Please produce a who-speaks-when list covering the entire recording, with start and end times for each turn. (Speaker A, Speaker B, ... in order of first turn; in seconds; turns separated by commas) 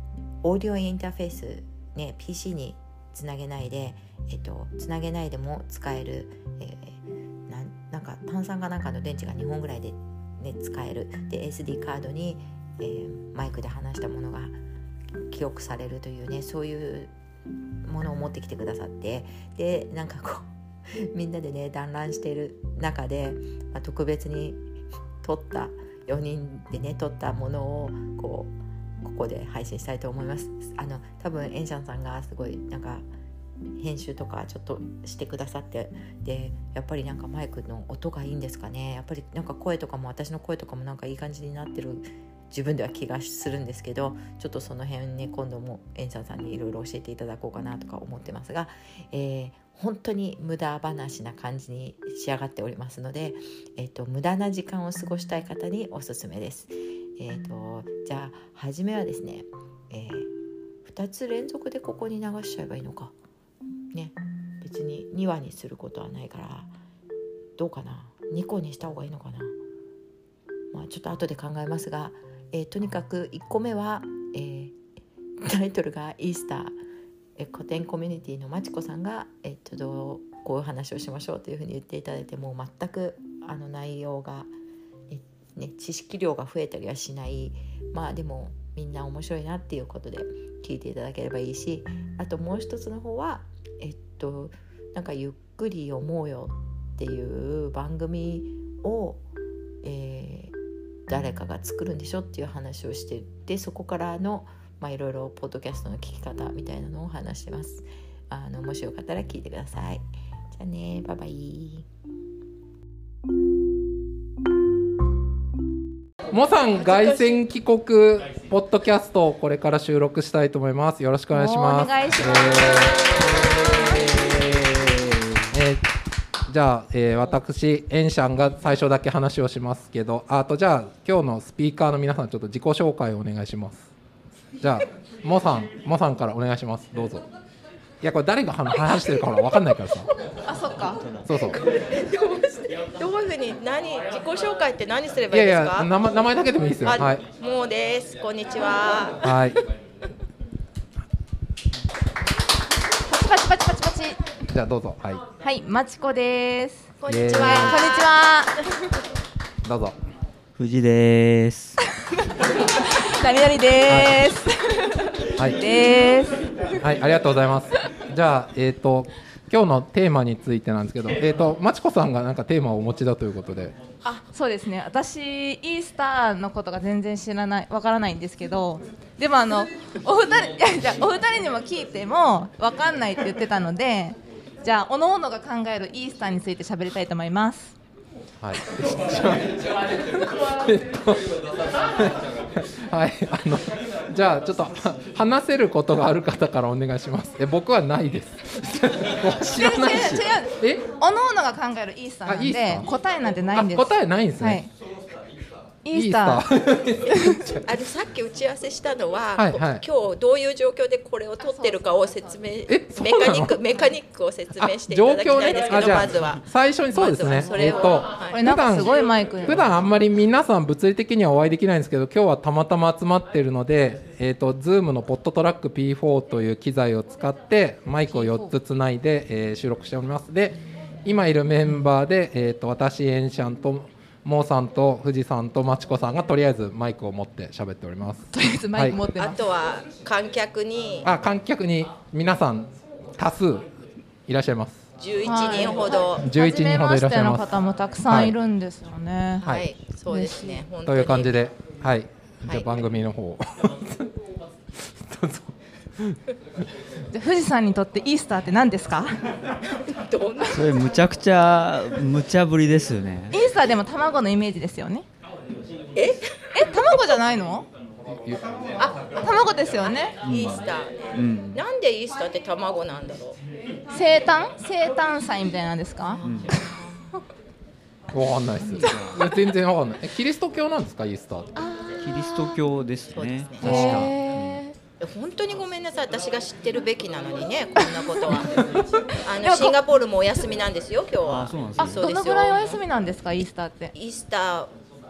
Speaker A: 0.4-14.6, Speaker A: 15.3-17.1, Speaker A: 17.8-24.6, Speaker A: 25.2-33.1, Speaker A: 33.8-60.3, Speaker A: 60.9-63.1, Speaker A: 63.9-66.8, Speaker A: 67.6-69.6, Speaker A: 70.7-74.8, Speaker A: 75.4-76.8, Speaker A: 77.4-84.5, Speaker A: 85.1-99.2, Speaker A: 99.8-100.5, Speaker A: 101.1-111.9, Speaker B: 116.3-125.9, Speaker C: 121.3-123.8, Speaker B: 126.5-133.9, Speaker B: 134.6-137.3, Speaker B: 138.0-140.1, Speaker C: 140.4-141.0, Speaker B: 141.2-141.6, Speaker D: 141.5-145.9, Speaker B: 145.3-147.2, Speaker D: 146.8-149.6, Speaker B: 149.2-149.6, Speaker C: 153.1-154.2, Speaker B: 154.5-155.2, Speaker C: 155.4-158.7, Speaker D: 157.0-158.2, Speaker B: 157.1-157.8, Speaker B: 159.6-159.9, Speaker E: 160.6-161.8, Speaker C: 162.8-166.7, Speaker B: 163.9-164.3, Speaker B: 166.8-173.7, Speaker C: 174.0-187.8, Speaker B: 188.4-191.3, Speaker B: 192.0-200.8, Speaker C: 199.6-204.7, Speaker B: 202.3-202.9, Speaker B: 203.5-204.6, Speaker C: 205.8-206.4, Speaker B: 205.9-207.6, Speaker C: 207.1-207.4, Speaker D: 207.7-218.4, Speaker B: 209.4-209.8, Speaker C: 211.4-212.4, Speaker B: 212.7-213.6, Speaker B: 214.6-239.0, Speaker C: 218.3-219.8, Speaker C: 228.1-228.5, Speaker C: 238.3-239.4, Speaker D: 239.2-241.1, Speaker B: 241.1-243.7, Speaker B: 244.3-244.8, Speaker D: 245.0-246.3, Speaker C: 245.2-249.5, Speaker B: 246.2-247.5, Speaker B: 248.1-248.4, Speaker D: 249.4-251.4, Speaker C: 250.1-250.6, Speaker B: 250.9-254.1, Speaker B: 254.8-256.2, Speaker C: 257.1-259.2, Speaker D: 259.9-260.9, Speaker E: 260.5-263.4, Speaker C: 263.3-265.1, Speaker D: 265.9-266.4, Speaker C: 266.5-267.7, Speaker B: 268.1-268.5, Speaker D: 268.8-269.2, Speaker C: 269.2-270.1, Speaker D: 270.2-273.4, Speaker E: 270.2-271.6, Speaker C: 273.9-276.2, Speaker D: 276.1-277.2, Speaker E: 276.2-276.6, Speaker B: 278.1-281.5, Speaker E: 278.6-279.1, Speaker C: 281.6-282.6, Speaker E: 282.0-284.1, Speaker D: 283.1-283.8, Speaker C: 283.6-284.8, Speaker B: 283.6-284.5, Speaker D: 285.0-288.6, Speaker C: 287.8-288.5, Speaker D: 289.2-292.8, Speaker C: 289.4-289.8, Speaker E: 291.2-292.0, Speaker C: 291.9-293.9, Speaker D: 293.9-294.7